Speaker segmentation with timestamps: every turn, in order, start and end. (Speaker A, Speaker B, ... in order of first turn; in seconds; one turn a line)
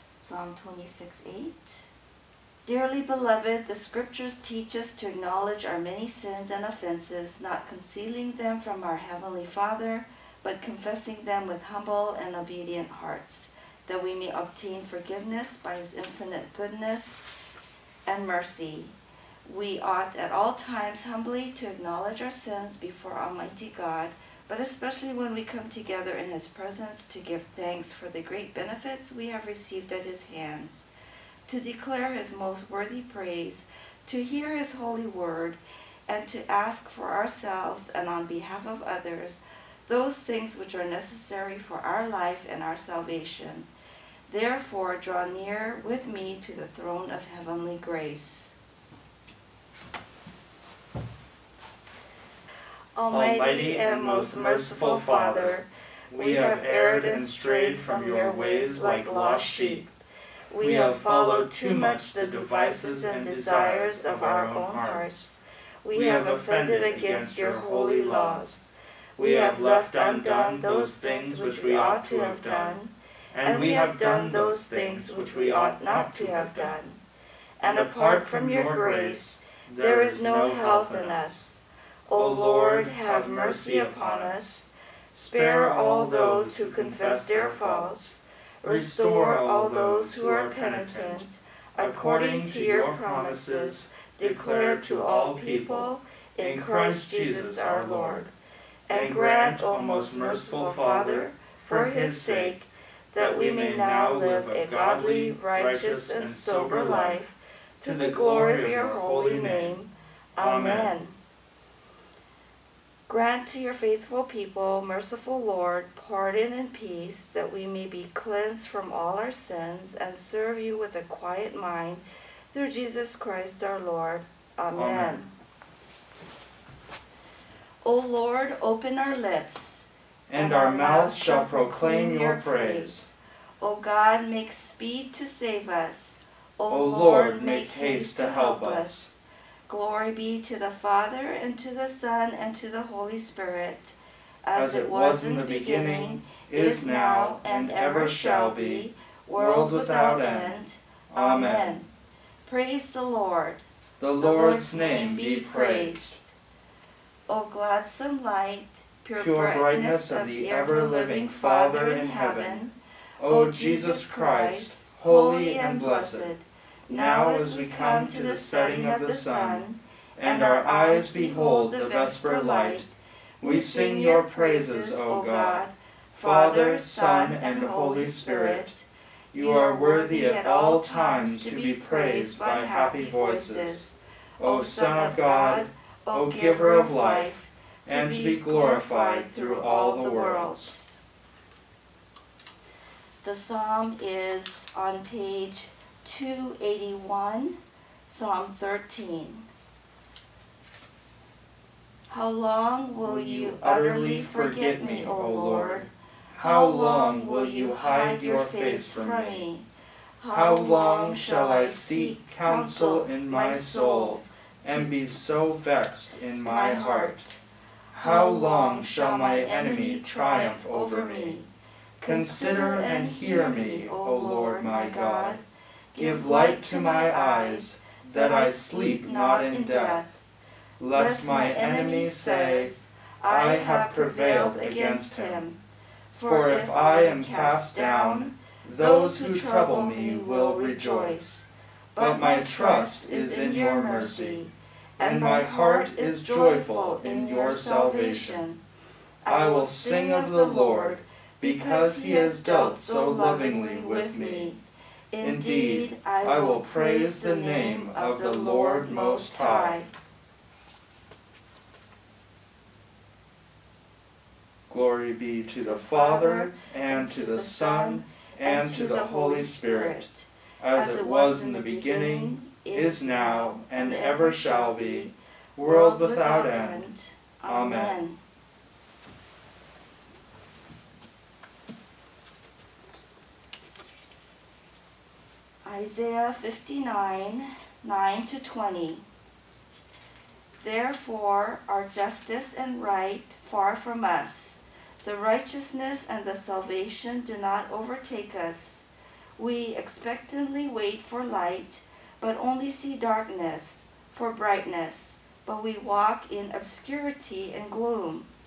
Speaker A: 0.2-1.9
Speaker A: 2.6-17.2
Speaker A: 18.1-30.9
Speaker A: 31.5-43.7
Speaker A: 44.3-48.5
Speaker A: 53.0-59.9
Speaker B: 53.1-55.5
Speaker B: 56.1-59.9
Speaker A: 60.5-77.0
Speaker B: 60.6-65.2
Speaker B: 65.9-68.5
Speaker B: 69.2-72.8
Speaker B: 73.3-76.8
Speaker A: 77.6-98.3
Speaker B: 77.6-81.4
Speaker B: 82.1-84.6
Speaker B: 85.1-88.1
Speaker B: 88.6-91.2
Speaker B: 91.8-98.3
Speaker A: 98.9-111.2
Speaker B: 98.9-102.5
Speaker B: 103.1-107.2
Speaker B: 107.8-109.8
Speaker B: 110.4-110.9
Speaker A: 113.1-125.3
Speaker B: 124.7-125.2
Speaker A: 127.8-151.9
Speaker B: 130.3-133.1
Speaker B: 136.7-139.1
Speaker B: 144.5-150.5
Speaker B: 151.1-151.7
Speaker A: 152.4-153.6
Speaker B: 154.0-156.2
Speaker A: 154.2-156.3
Speaker A: 157.3-172.9
Speaker B: 159.2-162.6
Speaker B: 163.2-166.3
Speaker B: 166.9-169.6
Speaker B: 170.2-172.8
Speaker B: 173.4-175.6
Speaker A: 173.4-191.0
Speaker B: 176.2-178.8
Speaker B: 179.3-183.9
Speaker B: 184.4-187.3
Speaker B: 187.8-190.8
Speaker A: 193.2-199.4
Speaker A: 202.1-205.9
Speaker B: 203.0-209.4
Speaker A: 206.4-209.7
Speaker A: 210.2-214.9
Speaker B: 210.3-217.2
Speaker A: 216.4-217.4
Speaker B: 217.9-221.3
Speaker A: 218.0-221.5
Speaker A: 222.0-225.4
Speaker B: 222.0-225.4
Speaker A: 225.9-230.2
Speaker B: 225.9-230.1
Speaker B: 230.8-232.7
Speaker A: 230.9-235.6
Speaker B: 233.2-235.4
Speaker A: 236.1-248.6
Speaker B: 236.2-241.4
Speaker B: 241.9-244.4
Speaker B: 245.0-248.4
Speaker A: 249.2-259.9
Speaker B: 249.3-254.5
Speaker B: 255.2-259.8
Speaker B: 264.7-270.0
Speaker A: 265.6-278.2
Speaker B: 270.6-276.9
Speaker B: 277.5-278.0
Speaker A: 285.6-289.0
Speaker A: 290.6-298.9
Speaker A: 299.4-308.3